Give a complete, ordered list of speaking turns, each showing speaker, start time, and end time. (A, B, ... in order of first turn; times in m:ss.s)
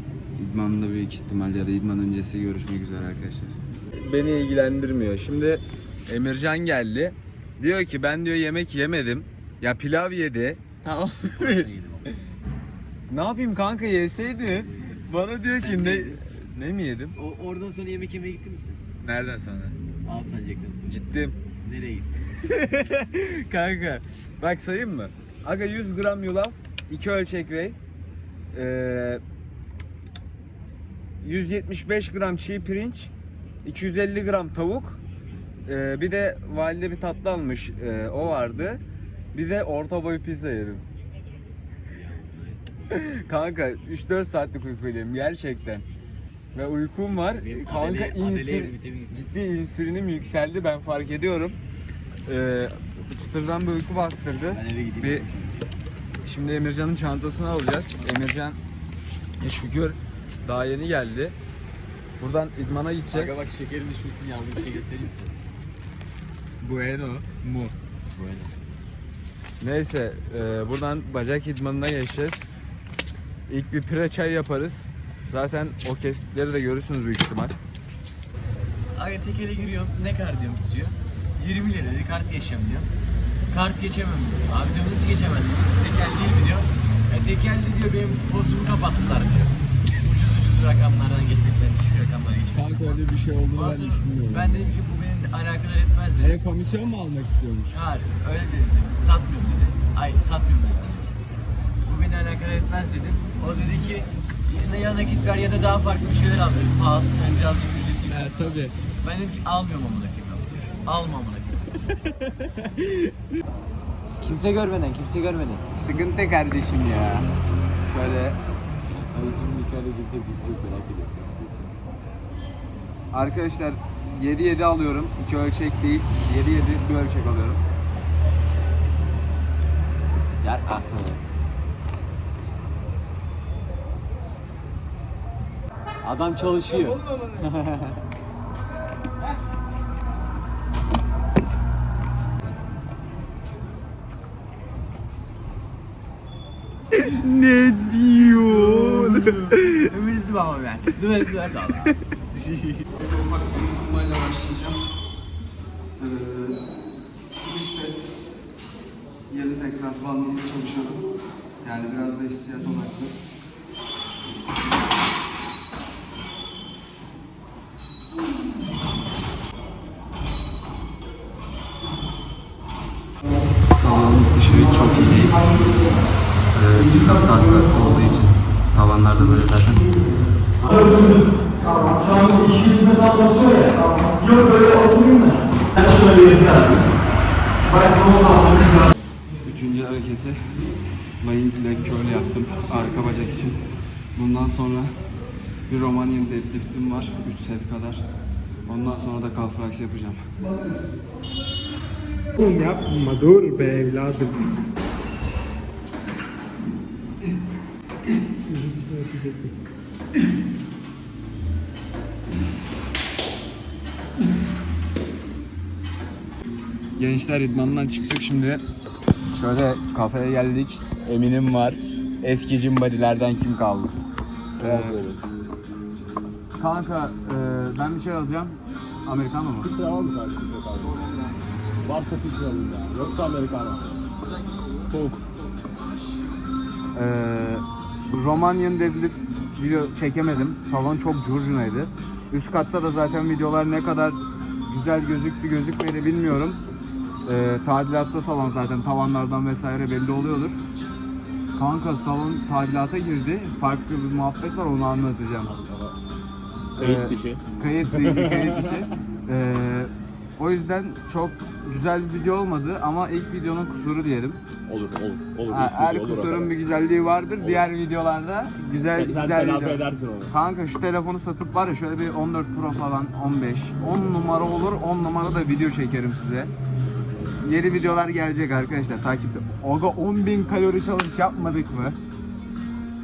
0:00.4-0:11.7 A
0:11.2-0:12.1 B
0:13.1-0:17.2 A
0:14.2-0:16.2 B
0:17.1-0:18.8 B
0:19.0-0:19.8 A
0:20.0-0:21.0 B
0:20.9-0:21.4 A
0:21.6-0:22.1 B
0:22.4-0:27.8 A
0:28.5-0:29.2 A
0:31.2-0:33.1 A
0:33.6-0:35.0 A
0:35.6-0:38.8 A
0:39.3-0:40.8 A
0:41.9-0:42.8 B
0:42.9-0:45.8 A
0:46.5-0:51.6 A
0:46.9-0:49.2 B
0:52.2-0:55.2 A
0:54.5-0:55.7 B
0:56.2-0:58.6 A
0:58.0-0:58.3 B
0:59.4-1:01.4 A
1:02.2-1:03.4 A
1:03.1-1:05.4 B
1:06.6-1:07.7 A
1:08.1-1:08.5 B
1:09.6-1:12.5 A
1:13.5-1:17.6 A
1:18.9-1:22.9 B
1:23.5-1:33.0 B
1:32.5-1:34.8 A
1:33.5-1:36.3 B
1:36.2-1:37.8 A
1:37.7-1:41.1 B
1:41.8-1:51.8 B
1:48.0-1:48.8 A
1:52.1-1:53.1 A
1:54.2-1:55.6 B
1:55.7-1:57.3 A
1:57.9-1:58.4 A
1:59.1-2:01.7 B
2:03.1-2:07.6 A
2:10.4-2:11.2 B
2:16.0-2:18.0 B
2:26.9-2:29.9 A
2:28.4-2:32.8 B
2:32.9-2:34.8 A
2:36.0-2:36.6 A
2:37.4-2:38.3 A
2:39.3-2:41.0 A
2:41.6-2:43.2 A
2:53.6-2:55.5 A
2:56.5-2:59.9 A
3:00.6-3:06.9 B
3:07.6-3:08.9 B
3:09.4-3:10.6 A
3:11.2-3:15.0 A
3:15.7-3:18.0 A
3:18.6-3:20.2 A
3:22.4-3:24.4 C
3:28.5-3:29.5 C
3:37.0-3:38.6 A
3:39.3-3:43.9 A
3:44.6-3:45.0 A
3:44.6-3:45.2 D
3:46.6-3:49.7 A
3:49.6-3:51.0 D
3:51.8-3:53.9 D
3:54.8-3:55.2 D
3:56.9-4:06.6 A
4:07.2-4:10.6 A
4:11.6-4:15.5 A
4:15.5-4:15.9 D
4:16.8-4:18.8 D
4:16.8-4:24.4 A
4:24.6-4:26.5 D
4:25.5-4:36.5 A
4:27.4-4:27.6 D
4:28.9-4:30.3 D
4:37.4-4:42.0 A